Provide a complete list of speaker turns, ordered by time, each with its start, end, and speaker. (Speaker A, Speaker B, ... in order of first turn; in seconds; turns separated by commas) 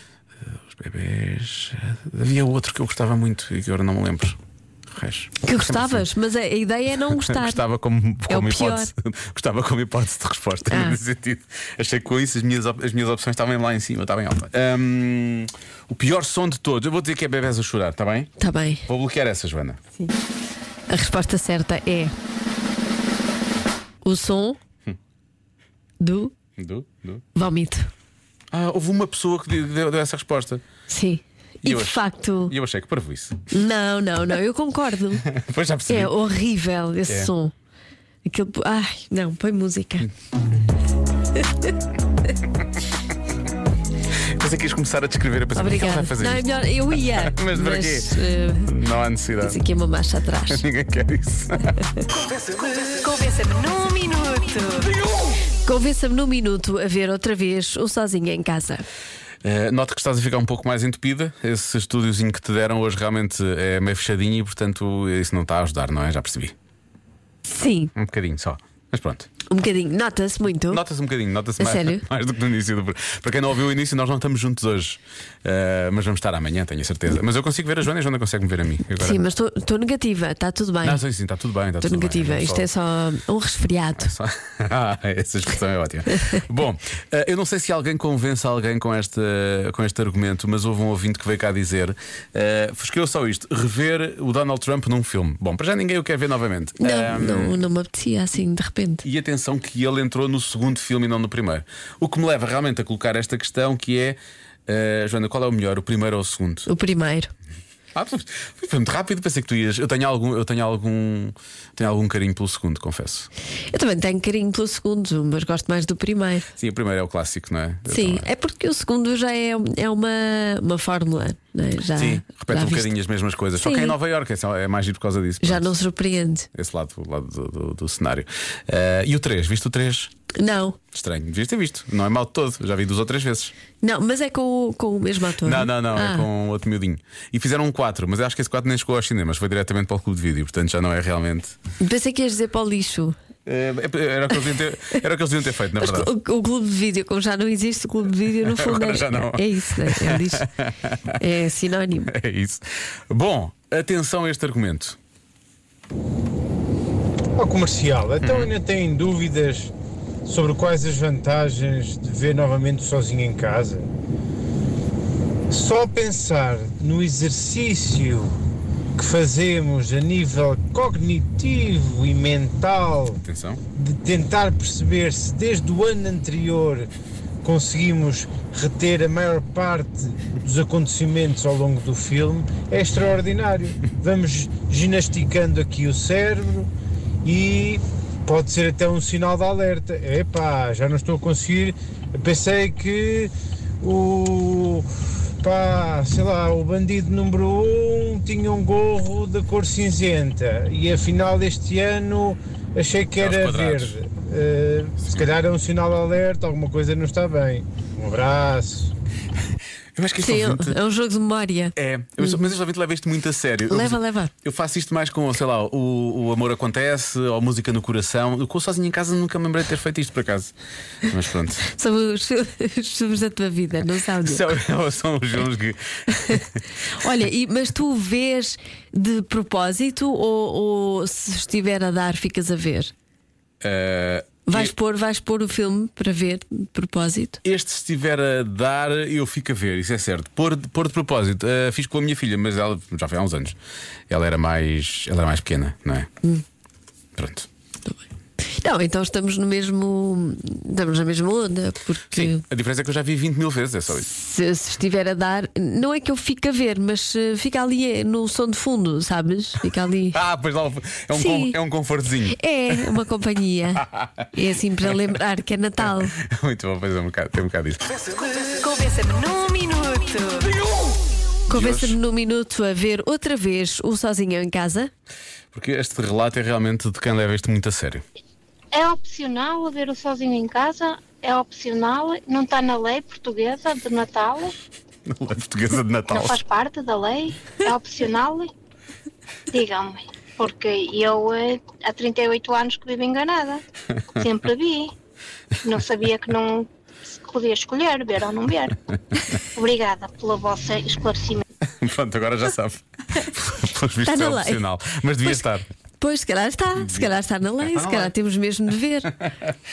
Speaker A: 0.7-4.4, Speaker A: 4.9-6.0, Speaker B: 5.4-7.6, Speaker A: 7.1-18.3, Speaker B: 8.3-8.9, Speaker B: 10.7-11.0, Speaker B: 18.4-18.8, Speaker A: 18.9-19.8, Speaker B: 20.9-22.1, Speaker B: 24.0-24.6, Speaker B: 26.0-26.3, Speaker A: 26.6-27.2, Speaker B: 27.3-27.9, Speaker A: 28.5-30.6, Speaker B: 30.9-32.5, Speaker A: 31.6-33.5, Speaker B: 33.5-35.2, Speaker A: 35.2-36.1, Speaker B: 35.9-37.5, Speaker B: 38.2-40.1, Speaker A: 44.4-49.6, Speaker B: 45.5-48.7, Speaker B: 49.4-50.6, Speaker A: 50.5-51.7, Speaker B: 52.7-54.9, Speaker B: 55.6-58.8, Speaker A: 59.4-66.5, Speaker B: 67.5-67.9, Speaker A: 68.0-69.3, Speaker B: 69.5-70.8, Speaker A: 70.7-79.2, Speaker B: 71.6-72.0, Speaker B: 79.0-81.0, Speaker A: 80.8-82.7, Speaker B: 81.8-84.1, Speaker A: 84.0-97.6, Speaker B: 96.8-99.0, Speaker A: 99.0-106.7, Speaker B: 106.7-107.3, Speaker A: 107.9-113.3, Speaker B: 113.7-116.5, Speaker A: 116.6-118.3, Speaker B: 117.9-122.9, Speaker A: 122.0-125.7, Speaker B: 123.6-123.9, Speaker B: 125.4-126.5, Speaker A: 126.5-130.1, Speaker B: 130.4-130.8, Speaker A: 130.9-133.5, Speaker B: 133.8-136.3, Speaker A: 135.4-141.5, Speaker B: 141.8-143.1, Speaker A: 143.4-146.1, Speaker B: 145.8-150.5, Speaker A: 148.5-151.0, Speaker B: 151.2-152.1, Speaker A: 152.1-155.0, Speaker C: 157.4-159.7, Speaker A: 158.2-158.5, Speaker C: 160.2-163.9, Speaker C: 165.5-168.3, Speaker C: 168.9-173.2, Speaker A: 173.2-173.6, Speaker C: 173.8-176.9, Speaker C: 177.4-186.7, Speaker C: 187.2-194.9, Speaker C: 195.4-208.9, Speaker A: 203.2-203.9, Speaker A: 205.0-205.3, Speaker A: 209.9-210.8, Speaker B: 210.2-212.4, Speaker A: 211.8-220.5, Speaker B: 213.7-214.3, Speaker A: 221.1-221.7, Speaker B: 221.7-224.5, Speaker A: 224.2-226.4, Speaker B: 227.0-232.9, Speaker A: 233.6-234.7, Speaker B: 234.5-237.4, Speaker A: 237.4-243.6, Speaker A: 244.1-246.1, Speaker A: 247.2-247.5, Speaker B: 248.6-252.4, Speaker A: 252.1-254.1, Speaker B: 254.1-260.2, Speaker A: 260.1-262.9, Speaker B: 261.1-261.6, Speaker B: 262.3-266.1, Speaker A: 266.2-268.0, Speaker B: 268.4-270.5, Speaker B: 271.5-274.9, Speaker A: 271.5-272.0, Speaker A: 275.5-278.0, Speaker D: 278.7-284.5, Speaker A: 285.1-286.4, Speaker D: 286.1-288.5, Speaker D: 289.5-293.6, Speaker D: 294.1-294.9, Speaker D: 295.6-298.9, Speaker D: 299.5-301.4, Speaker A: 301.7-305.6, Speaker B: 304.0-304.6, Speaker B: 306.0-309.1, Speaker A: 306.8-307.1, Speaker A: 307.7-308.1